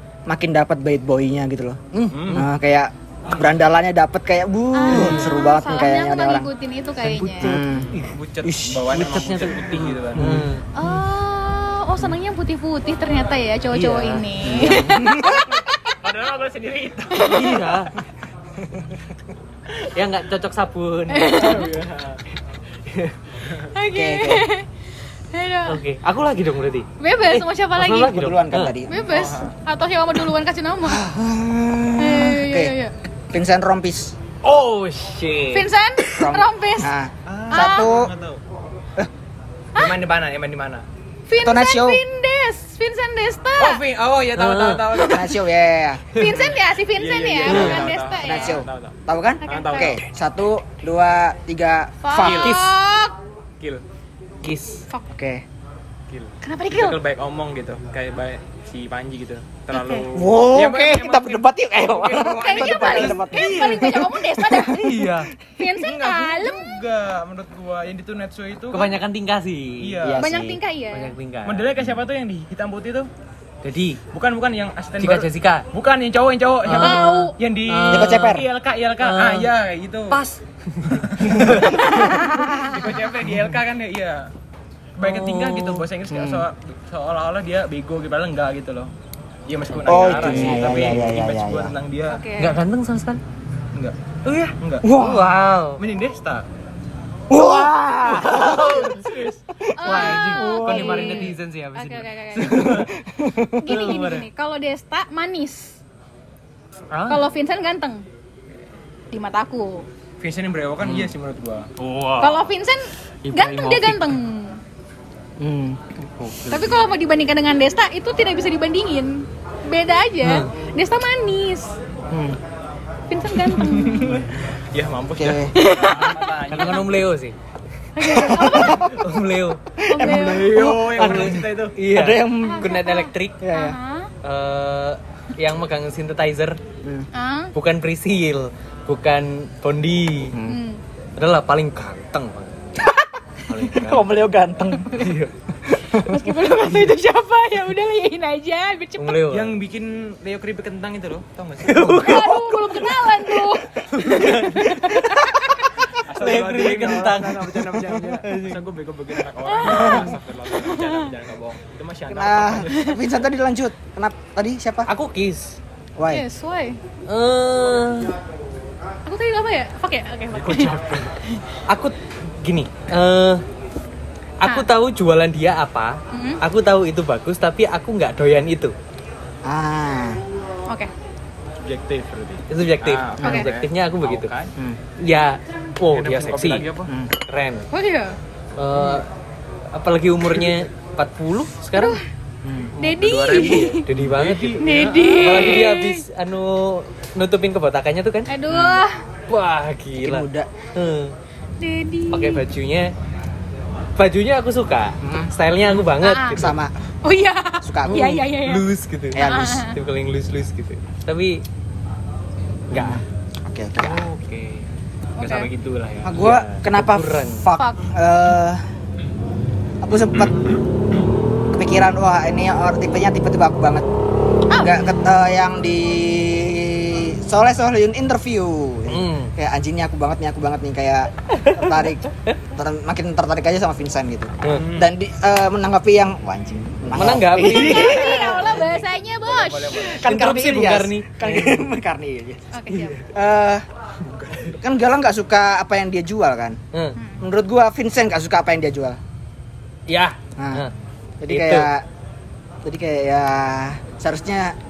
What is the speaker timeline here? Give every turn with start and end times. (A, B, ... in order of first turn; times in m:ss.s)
0:00.3-0:06.5 A
0:02.1-0:02.4 B
0:02.1-0:02.5 C
0:04.7-0:07.5 D
0:04.9-0:05.3 B
0:07.0-0:10.7 B
0:07.4-0:07.9 A
0:08.1-0:10.4 C
0:10.2-0:10.5 A
0:10.7-0:15.7 D
0:13.7-0:14.9 B
0:14.5-0:15.5 A
0:16.0-0:17.7 C
0:17.2-0:17.5 D
0:17.2-0:17.9 B
0:19.9-0:21.7 B
0:21.1-0:21.7 D
0:21.3-0:22.2 C
0:22.8-0:23.2 B
0:23.7-0:24.6 D
0:23.9-0:24.5 A
0:25.3-0:25.8 D
0:25.7-0:28.8 B
0:27.0-0:28.2 D
0:28.0-0:29.0 A
0:28.9-0:31.0 D
0:29.0-0:29.5 C
0:30.8-0:32.7 A
0:32.0-0:32.9 D
0:33.3-0:34.2 A
0:34.4-0:35.7 B
0:35.5-0:36.9 D
0:36.2-0:38.1 A
0:37.2-0:38.4 C
0:37.5-0:37.9 D
0:39.7-0:40.8 C
0:41.3-0:43.8 D
0:41.4-0:42.0 A
0:43.6-0:45.3 C
0:44.3-0:44.9 B
0:45.1-0:46.1 A
0:46.1-0:48.6 D
0:46.2-0:50.0 C
0:47.4-0:47.9 B
0:48.2-0:52.6 A
0:49.4-0:50.0 D
0:52.0-0:53.1 D
0:52.2-0:52.6 C
0:52.4-0:52.7 B
0:54.4-0:54.8 B
0:55.1-0:55.4 A
0:56.1-1:03.2 C
0:56.4-0:57.0 D
0:59.7-1:00.0 D
1:00.1-1:05.2 A
1:02.3-1:05.0 D
1:03.2-1:04.0 B
1:04.7-1:05.3 B
1:05.6-1:06.8 D
1:05.7-1:09.0 C
1:08.7-1:10.0 B
1:09.8-1:10.2 C
1:10.0-1:10.6 A
1:10.2-1:11.1 D
1:10.9-1:11.7 B
1:11.4-1:13.1 C
1:13.6-1:14.0 B
1:14.1-1:20.2 C
1:15.0-1:15.7 B
1:16.6-1:18.5 B
1:16.7-1:17.3 D
1:17.9-1:18.4 A
1:19.0-1:19.5 B
1:20.1-1:22.1 B
1:20.9-1:24.3 C
1:21.7-1:22.8 D
1:25.0-1:28.9 C
1:25.0-1:25.8 B
1:26.1-1:26.5 A
1:29.5-1:32.2 C
1:29.7-1:30.9 B
1:29.8-1:31.7 A
1:32.1-1:32.6 D
1:32.4-1:33.2 B
1:34.2-1:35.8 B
1:34.6-1:34.9 C
1:34.8-1:35.3 A
1:35.8-1:36.4 C
1:37.3-1:38.9 A
1:38.0-1:39.1 B
1:38.3-1:39.4 C
1:39.7-1:42.7 D
1:39.8-1:42.9 B
1:39.8-1:41.2 A
1:42.5-1:43.7 A
1:43.6-1:45.8 D
1:43.7-1:44.3 B
1:46.9-1:47.2 B
1:47.1-1:48.0 D
1:49.1-1:49.9 D
1:50.2-1:51.7 C
1:50.8-1:51.1 B
1:51.8-1:52.5 B
1:52.2-1:54.6 D
1:53.2-1:54.2 B
1:55.4-1:55.8 A
1:56.2-1:56.8 B
1:56.5-2:01.8 D
2:00.2-2:00.5 B
2:02.1-2:02.4 A
2:03.1-2:04.2 D
2:03.6-2:07.0 C
2:05.2-2:05.5 A
2:05.5-2:06.3 D
2:06.5-2:07.3 B
2:07.9-2:08.9 D
2:08.0-2:09.0 A
2:08.8-2:09.6 B
2:09.8-2:12.7 A
2:09.9-2:10.6 D
2:10.0-2:11.8 C
2:11.0-2:13.4 B
2:12.4-2:14.1 D
2:13.4-2:13.8 A
2:14.2-2:16.6 B
2:16.8-2:17.1 A
2:17.1-2:17.5 D
2:17.5-2:20.4 B
2:20.3-2:20.6 A
2:20.4-2:20.8 D
2:21.2-2:22.6 B
2:23.5-2:24.1 B
2:23.7-2:25.0 A
2:24.9-2:25.3 B
2:25.9-2:29.2 D
2:29.0-2:29.6 B
2:29.3-2:32.3 C
2:31.6-2:35.1 B
2:32.0-2:35.7 D
2:36.0-2:43.0 C
2:36.1-2:38.6 B
2:39.4-2:41.1 D
2:39.7-2:40.0 A
2:42.1-2:44.9 A
2:44.9-2:45.6 B
2:46.0-2:46.2 A
2:46.1-2:46.8 D
2:47.1-2:48.1 B
2:49.0-2:51.4 D
2:50.4-2:51.1 B
2:50.4-2:51.0 C
2:51.7-2:53.4 B
2:54.4-2:58.7 B
2:56.1-2:56.4 D
2:59.4-3:00.2 A
3:01.6-3:04.5 C
3:02.5-3:04.3 B
3:05.0-3:06.7 B
3:05.9-3:06.9 C
3:06.9-3:07.1 A
3:07.3-3:07.7 B
3:07.7-3:08.1 D
3:08.6-3:09.1 B
3:08.8-3:09.0 A
3:09.7-3:12.0 B
3:11.8-3:12.0 D
3:12.4-3:12.7 A
3:12.8-3:13.8 D
3:12.8-3:15.7 C
3:13.3-3:18.3 B
3:14.6-3:16.0 D
3:18.3-3:19.0 D
3:18.5-3:18.8 A
3:19.3-3:21.1 B
3:20.0-3:20.5 A
3:21.6-3:22.4 D
3:22.1-3:22.9 B
3:24.0-3:26.6 B
3:25.0-3:25.3 A
3:26.0-3:26.4 D
3:26.3-3:26.7 A
3:27.0-3:28.6 D
3:27.6-3:28.1 A
3:27.9-3:31.4 B
3:29.1-3:29.6 A
3:29.2-3:29.7 D
3:32.7-3:33.0 B
3:32.7-3:34.1 A
3:33.8-3:34.6 C
3:35.2-3:35.5 D
3:35.2-3:36.2 C
3:36.0-3:38.6 A
3:36.2-3:37.4 B
3:37.6-3:37.8 D
3:39.8-3:40.5 A
3:40.3-3:40.6 C
3:41.5-3:43.8 A
3:44.5-3:44.8 D
3:44.6-3:58.3 A
3:48.9-3:49.3 B
3:51.3-3:52.4 B
3:54.5-3:54.9 C
3:56.9-3:58.4 B
3:57.4-4:00.0 D
3:57.6-4:00.2 C
4:00.0-4:01.7 B
4:00.0-4:02.5 A
4:02.5-4:03.0 D
4:02.7-4:03.0 B
4:03.1-4:03.6 A
4:04.1-4:04.5 C
4:04.6-4:06.6 A
4:07.0-4:07.2 D
4:07.2-4:09.0 A
4:09.9-4:10.7 B
4:10.4-4:10.6 A
4:11.2-4:11.8 A
4:11.3-4:11.7 B
4:12.6-4:14.5 A